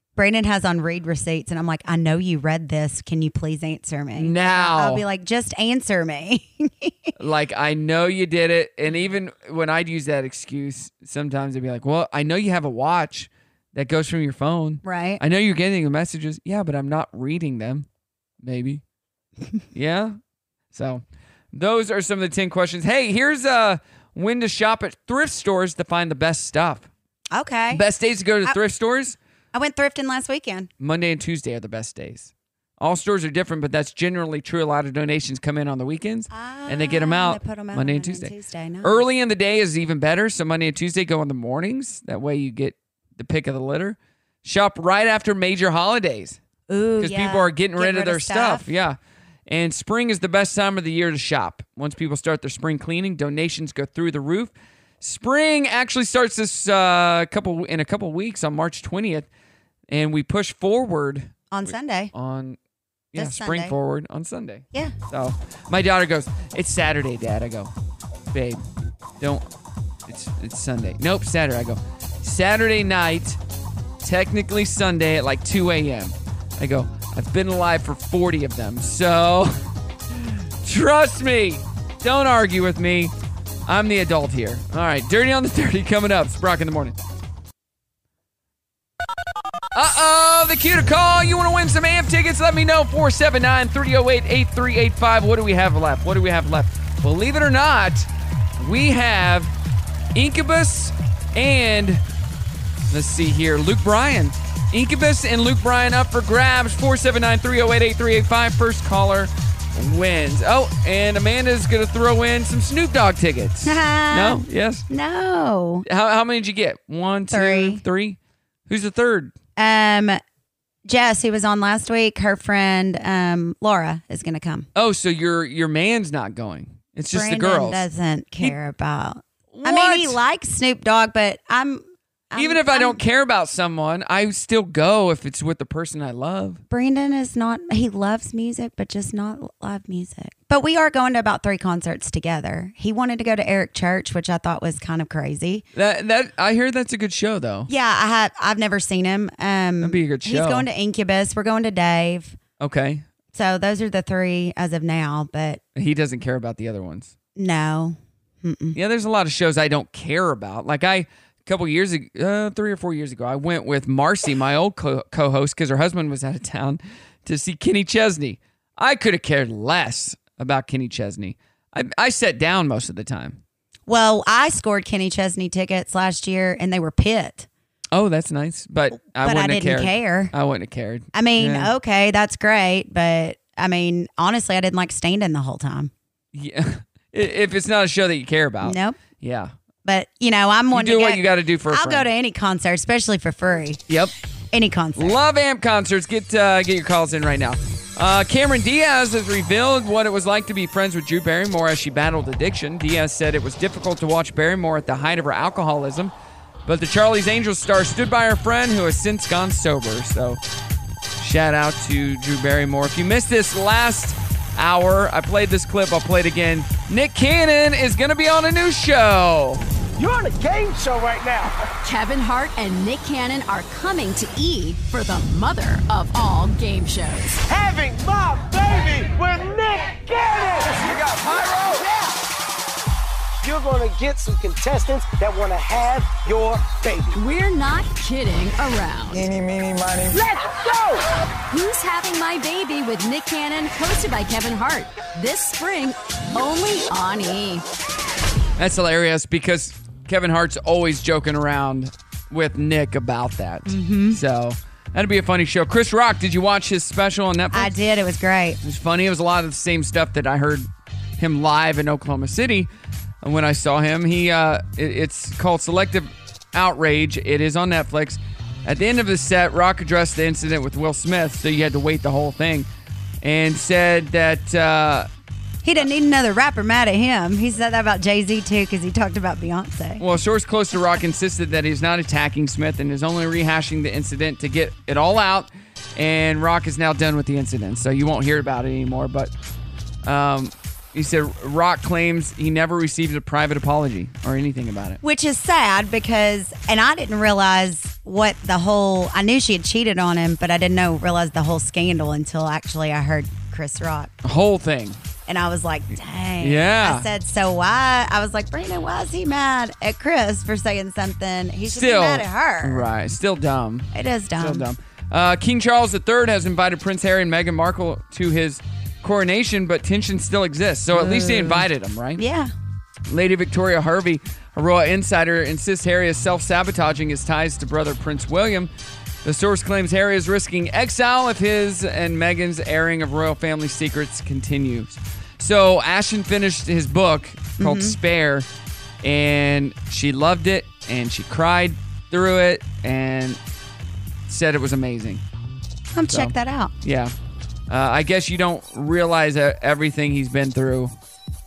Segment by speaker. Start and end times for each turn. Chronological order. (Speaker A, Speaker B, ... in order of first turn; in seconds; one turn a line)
Speaker A: 0.2-7.1
Speaker B: 4.2-5.0
Speaker B: 7.2-17.9
Speaker A: 14.8-15.2
Speaker B: 18.4-18.8
Speaker B: 19.7-20.2
Speaker B: 20.7-26.9
Speaker A: 27.3-27.8
Speaker B: 27.7-29.2
Speaker A: 29.5-30.7
Speaker B: 30.8-46.4
Speaker A: 36.3-39.1
Speaker A: 46.7-48.7
Speaker B: 47.0-49.0
Speaker B: 49.5-59.3
Speaker B: 59.9-62.6
Speaker A: 61.5-62.1
Speaker B: 63.1-67.7
Speaker A: 63.1-63.8
Speaker B: 68.3-68.6
Speaker B: 70.1-73.4
Speaker B: 74.0-79.5
Speaker B: 80.2-83.1
Speaker B: 83.7-87.0
Speaker B: 89.7-99.5
Speaker B: 100.2-102.0
Speaker B: 102.9-114.9
Speaker A: 113.7-115.9
Speaker B: 115.8-119.3
Speaker A: 117.3-117.8
Speaker A: 119.6-120.2
Speaker A: 120.9-124.7
Speaker B: 124.8-127.8
Speaker A: 127.1-133.0
Speaker B: 129.5-130.2
Speaker B: 132.3-136.6
Speaker A: 136.7-145.6
Speaker B: 145.7-147.7
Speaker A: 147.7-152.4
Speaker B: 149.8-150.7
Speaker B: 152.6-153.1
Speaker A: 153.3-155.6
Speaker B: 155.8-157.1
Speaker A: 157.4-158.8
Speaker B: 158.8-173.4
Speaker A: 173.9-177.5
Speaker B: 177.9-181.7
Speaker A: 179.1-180.3
Speaker A: 181.2-185.9
Speaker B: 186.3-189.5
Speaker A: 188.6-189.0
Speaker A: 189.8-193.8
Speaker B: 190.7-192.1
Speaker A: 194.5-195.2
Speaker B: 195.0-206.1
Speaker B: 206.7-210.4
Speaker B: 211.2-219.6
Speaker C: 220.0-221.5
Speaker D: 221.8-227.4
Speaker C: 227.5-232.1
Speaker C: 233.4-237.2
Speaker D: 237.1-239.3
Speaker C: 239.2-241.1
Speaker D: 241.5-247.6
Speaker B: 248.6-257.7
Speaker A: 253.7-254.2
Speaker A: 257.5-258.6
Speaker B: 258.6-262.7
Speaker B: 263.2-272.7
Speaker B: 273.2-275.1
Speaker A: 275.6-280.0
Speaker B: 280.0-289.3
Speaker B: 290.1-295.0
Speaker A: 295.0-304.1
Speaker B: 304.2-305.0
Speaker A: 305.3-312.9
Speaker B: 306.4-307.1
Speaker B: 311.6-322.2
Speaker A: 313.9-314.6
Speaker A: 320.9-321.7
Speaker A: 322.2-322.5
Speaker B: 323.1-328.7
Speaker B: 329.2-338.5
Speaker A: 337.6-338.0
Speaker B: 339.0-343.4
Speaker B: 344.3-345.2
Speaker A: 345.9-346.7
Speaker B: 346.1-347.1
Speaker B: 347.7-350.9